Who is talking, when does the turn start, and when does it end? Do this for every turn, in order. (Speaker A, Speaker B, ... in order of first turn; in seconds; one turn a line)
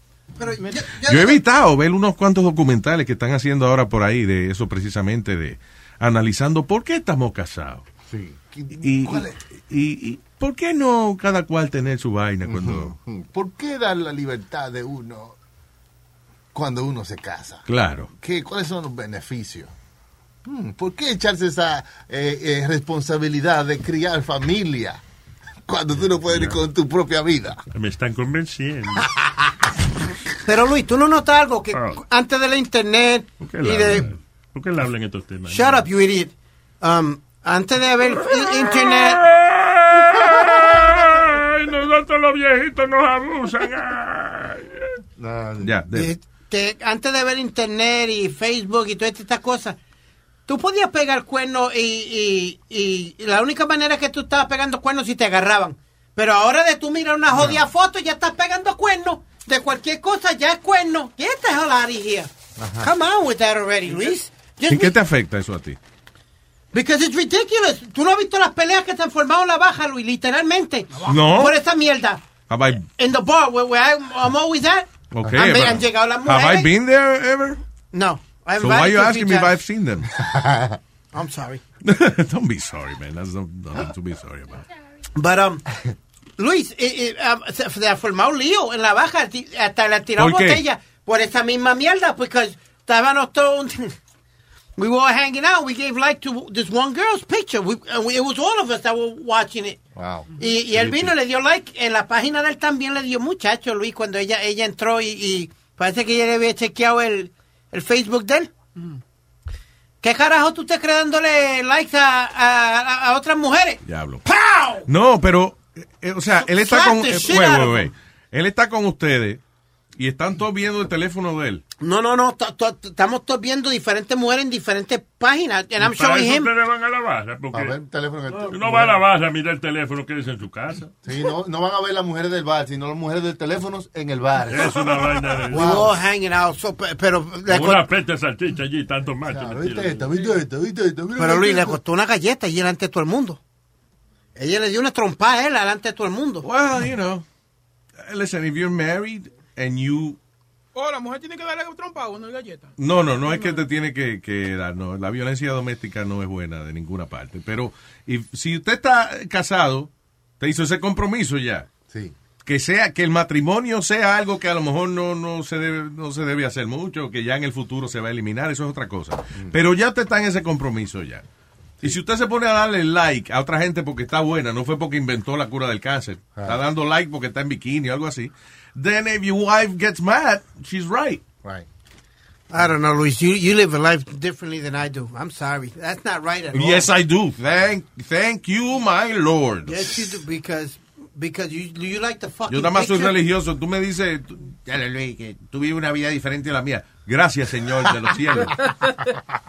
Speaker A: 0.4-1.4
Speaker B: 1.0-7.8
Speaker C: 8.1-9.4
Speaker B: 8.8-12.9
Speaker C: 12.4-15.4
Speaker C: 16.5-19.7
Speaker B: 17.7-18.1
Speaker C: 20.4-25.0
Speaker C: 25.7-27.6
Speaker D: 26.3-26.6
Speaker D: 27.7-29.1
Speaker A: 30.4-34.1
Speaker D: 31.7-32.0
Speaker D: 33.4-35.9
Speaker A: 35.5-39.2
Speaker D: 39.0-44.8
Speaker C: 45.2-45.8
Speaker B: 45.6-46.1
Speaker A: 45.9-49.8
Speaker A: 50.5-65.0
Speaker C: 57.3-57.6
Speaker C: 62.6-62.9
Speaker B: 64.7-65.8
Speaker A: 66.7-76.7
Speaker B: 71.1-71.6
Speaker B: 72.5-72.9
Speaker B: 75.1-77.6
Speaker A: 77.9-79.6
Speaker B: 78.6-80.1
Speaker C: 80.2-80.8
Speaker A: 81.1-81.6
Speaker B: 81.8-84.6
Speaker A: 85.2-85.6
Speaker A: 86.4-93.9
Speaker B: 90.2-90.6
Speaker A: 94.8-99.8
Speaker C: 100.0-101.1
Speaker A: 100.4-108.5
Speaker A: 110.0-114.9
Speaker B: 113.8-114.2
Speaker B: 114.9-119.4
Speaker A: 116.4-117.9
Speaker B: 120.0-121.6
Speaker A: 121.8-126.5
Speaker D: 125.8-127.8
Speaker C: 127.5-129.0
Speaker D: 128.3-130.9
Speaker C: 131.0-135.9
Speaker D: 134.5-135.9
Speaker A: 135.5-137.9
Speaker D: 137.5-140.3
Speaker C: 139.3-141.8
Speaker A: 141.2-143.4
Speaker A: 144.3-146.4
Speaker B: 146.4-147.2
Speaker B: 148.0-150.2
Speaker E: 150.7-153.6
Speaker B: 152.8-161.7
Speaker C: 161.9-162.1
Speaker B: 162.4-171.2
Speaker B: 171.8-181.2
Speaker C: 176.4-176.6
Speaker A: 182.5-186.9
Speaker B: 186.5-190.1
Speaker A: 189.7-193.2
Speaker B: 192.5-198.7